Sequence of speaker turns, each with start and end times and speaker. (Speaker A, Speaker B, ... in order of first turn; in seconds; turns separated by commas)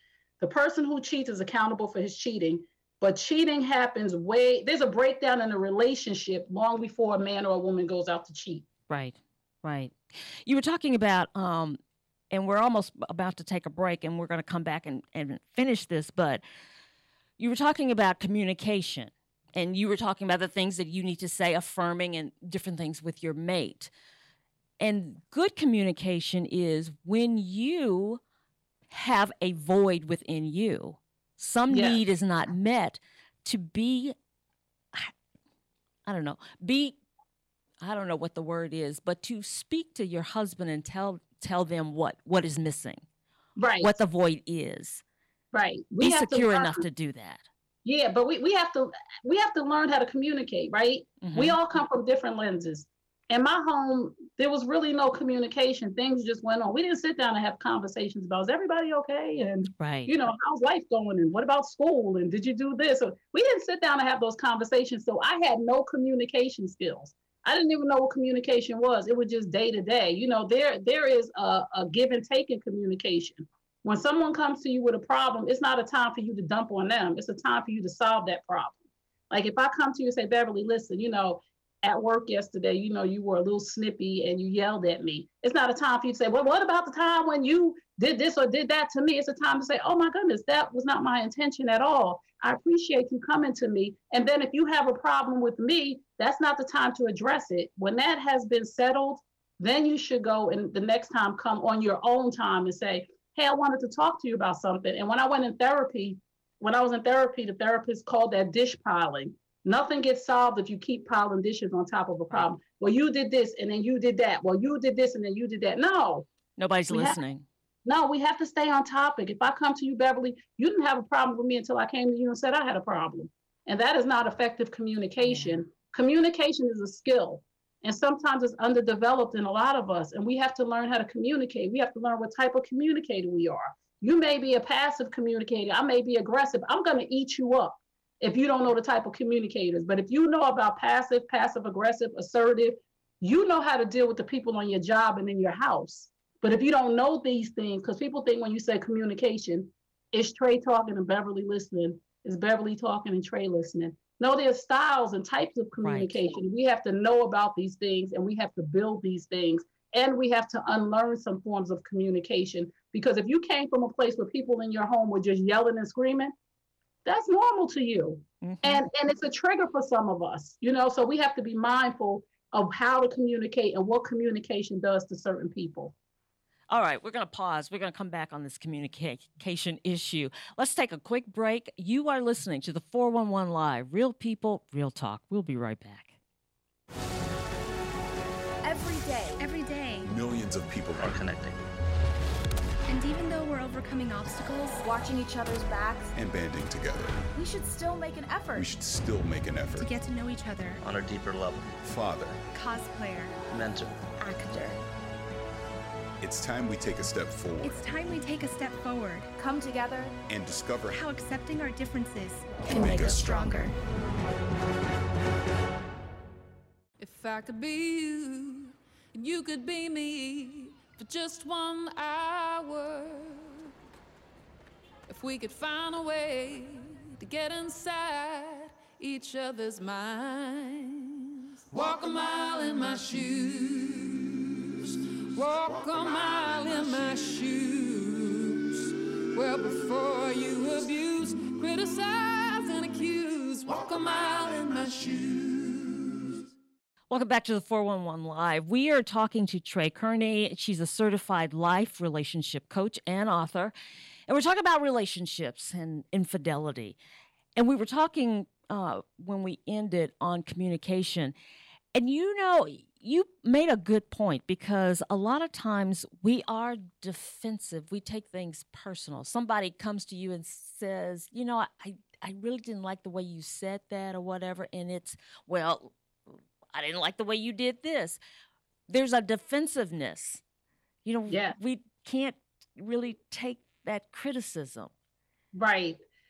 Speaker A: 0.4-8.7, Speaker B: 8.9-11.8, Speaker B: 12.3-16.4, Speaker B: 17.4-23.9, Speaker B: 24.8-28.2, Speaker B: 28.9-34.2, Speaker A: 31.7-32.0, Speaker B: 36.0-37.0, Speaker B: 37.8-43.0, Speaker A: 43.6-44.0, Speaker B: 43.8-45.0, Speaker A: 45.5-46.9, Speaker B: 46.0-47.5, Speaker A: 47.9-78.8, Speaker B: 51.2-51.6, Speaker B: 59.8-60.1, Speaker A: 79.3-116.3, Speaker B: 116.6-117.5, Speaker A: 116.9-117.2, Speaker A: 117.8-166.3, Speaker B: 125.2-125.6, Speaker B: 155.8-156.2, Speaker A: 167.1-175.9, Speaker B: 168.4-168.8, Speaker B: 176.7-186.2, Speaker C: 188.6-189.5, Speaker D: 189.4-190.1, Speaker E: 190.1-191.3, Speaker F: 191.0-191.6, Speaker D: 192.9-194.8, Speaker C: 194.8-196.1, Speaker E: 196.2-197.3, Speaker C: 197.3-198.7, Speaker E: 198.6-199.9, Speaker D: 199.8-200.8, Speaker F: 200.8-201.8, Speaker E: 201.8-202.4, Speaker D: 202.5-203.3, Speaker F: 203.5-204.0, Speaker C: 204.2-204.8, Speaker E: 206.2-207.9, Speaker D: 207.6-209.3, Speaker C: 209.4-210.2, Speaker E: 210.3-211.0, Speaker D: 210.9-213.8, Speaker E: 212.7-213.5, Speaker C: 212.7-213.1, Speaker G: 217.0-223.7, Speaker G: 225.1-246.3, Speaker B: 247.1-253.7, Speaker B: 254.3-257.0, Speaker B: 257.6-261.3, Speaker B: 261.9-275.9, Speaker B: 276.7-278.2, Speaker B: 278.9-280.4, Speaker B: 281.1-284.9, Speaker A: 281.3-281.6, Speaker A: 285.5-286.0